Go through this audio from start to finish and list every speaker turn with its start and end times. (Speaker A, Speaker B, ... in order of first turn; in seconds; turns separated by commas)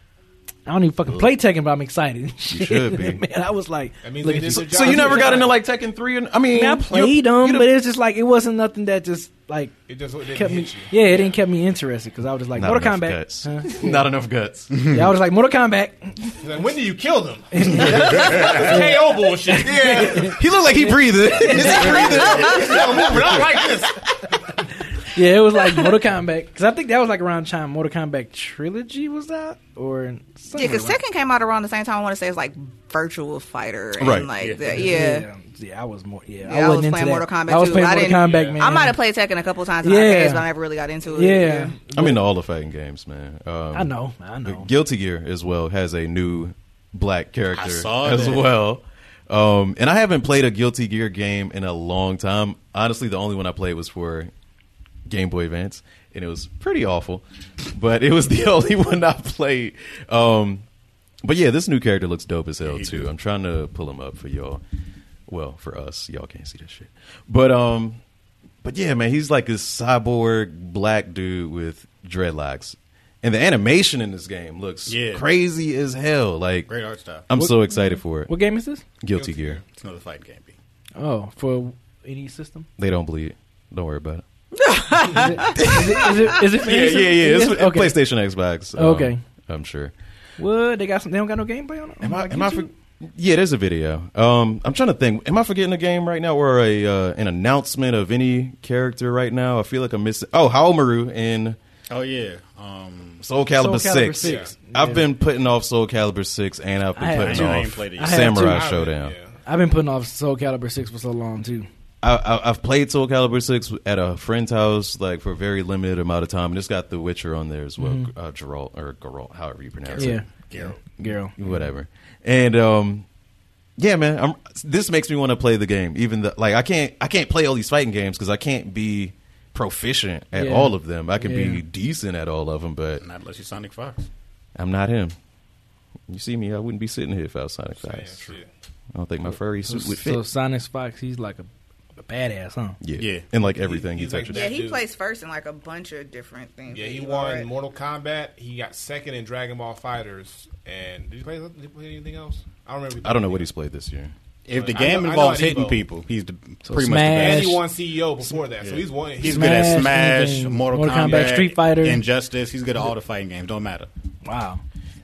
Speaker A: 0.7-5.5, Speaker B: 2.5-3.2, Speaker C: 4.0-5.5, Speaker B: 4.5-7.7, Speaker A: 6.5-9.7, Speaker C: 9.9-11.3, Speaker A: 10.3-14.0, Speaker B: 12.5-14.7, Speaker A: 14.8-16.4, Speaker C: 16.4-20.4, Speaker A: 17.5-20.4, Speaker B: 20.4-23.5, Speaker A: 21.4-22.1, Speaker C: 21.5-24.2, Speaker D: 22.2-22.5, Speaker E: 22.2-22.6, Speaker A: 25.1-31.0, Speaker D: 30.5-35.3, Speaker B: 34.0-34.3, Speaker E: 34.0-34.9, Speaker A: 34.7-39.0, Speaker D: 36.4-41.8, Speaker C: 37.6-38.8, Speaker A: 39.8-40.4, Speaker A: 41.1-42.2, Speaker B: 41.9-54.3, Speaker A: 43.7-44.7, Speaker E: 47.5-48.5, Speaker B: 55.1-60.6, Speaker B: 61.2-64.6, Speaker E: 62.6-63.1, Speaker B: 65.3-68.0, Speaker B: 68.6-76.7, Speaker E: 74.9-75.2, Speaker E: 76.7-77.2, Speaker B: 77.3-78.3, Speaker A: 77.4-78.8, Speaker B: 79.0-79.6, Speaker C: 79.1-79.6, Speaker E: 79.7-80.5, Speaker A: 81.0-82.7, Speaker B: 82.8-84.2, Speaker D: 84.6-86.1, Speaker A: 85.1-88.0, Speaker B: 85.5-89.9, Speaker A: 88.8-89.2, Speaker A: 90.4-92.6, Speaker B: 92.0-101.6, Speaker E: 101.9-103.2, Speaker B: 103.2-109.2, Speaker A: 103.6-105.0, Speaker C: 104.2-104.5, Speaker A: 107.0-108.7, Speaker E: 107.2-108.3, Speaker C: 108.4-109.4, Speaker A: 109.5-111.7, Speaker B: 112.0-123.0, Speaker A: 117.8-118.1, Speaker E: 119.8-120.8, Speaker A: 120.0-121.3, Speaker B: 123.8-133.0, Speaker A: 130.3-131.6, Speaker E: 133.0-134.1, Speaker B: 134.6-135.1, Speaker B: 136.1-138.4, Speaker C: 137.8-138.5, Speaker B: 138.9-140.2, Speaker A: 139.7-142.8, Speaker B: 142.8-144.5, Speaker E: 143.0-143.2, Speaker C: 143.6-144.8, Speaker D: 144.3-147.5, Speaker C: 146.7-153.5, Speaker B: 153.0-154.1, Speaker E: 154.4-157.6, Speaker C: 154.5-155.8, Speaker A: 156.7-157.6, Speaker C: 157.1-159.6, Speaker E: 158.6-163.9, Speaker A: 159.2-162.0, Speaker C: 161.0-161.4, Speaker A: 164.2-164.6